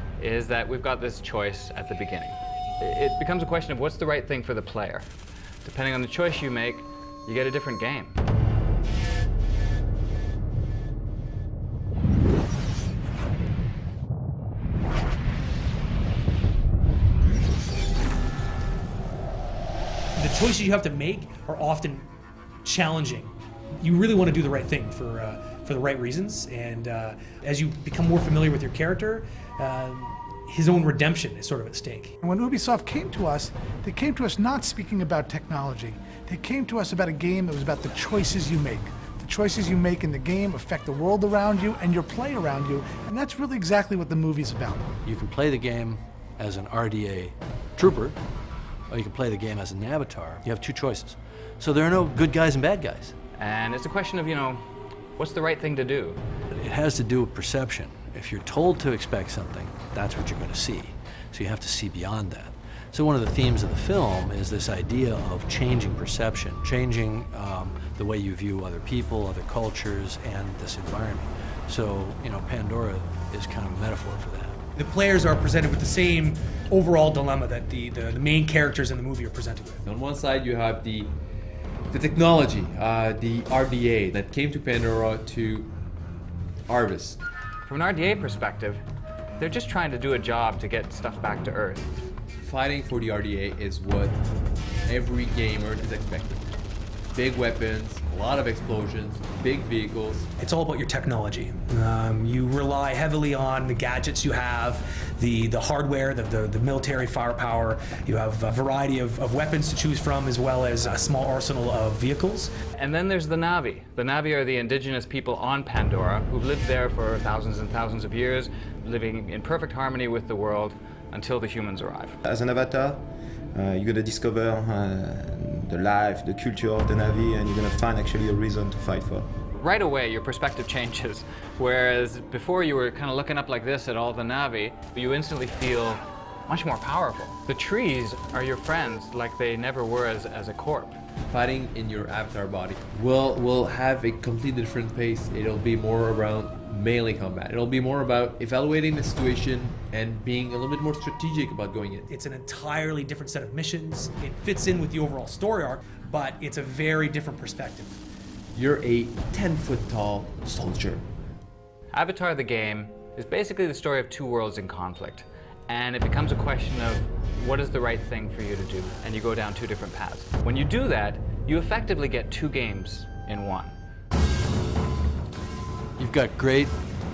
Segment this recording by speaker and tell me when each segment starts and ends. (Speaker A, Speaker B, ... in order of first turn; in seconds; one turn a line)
Speaker A: 0.2-5.1
Speaker A: 5.6-8.2
Speaker B: 20.2-21.9
Speaker B: 22.6-23.3
Speaker B: 23.8-32.1
Speaker C: 32.2-44.9
Speaker D: 45.0-48.2
Speaker D: 48.9-53.1
Speaker A: 53.4-54.6
Speaker A: 55.2-56.2
Speaker D: 56.5-74.6
Speaker B: 74.8-79.8
Speaker E: 79.8-81.1
Speaker E: 81.9-85.7
Speaker E: 86.7-87.2
Speaker A: 87.6-88.8
Speaker A: 89.4-91.9
Speaker E: 92.4-94.2
Speaker E: 94.9-96.5
Speaker E: 97.1-100.3
Speaker B: 100.4-112.5
Speaker A: 112.8-122.2
Speaker F: 122.2-129.3
Speaker A: 129.5-141.0
Speaker E: 141.3-152.1
Speaker B: 152.1-157.9
Speaker E: 158.5-161.0
Speaker A: 161.9-173.7
Speaker D: 176.0-176.8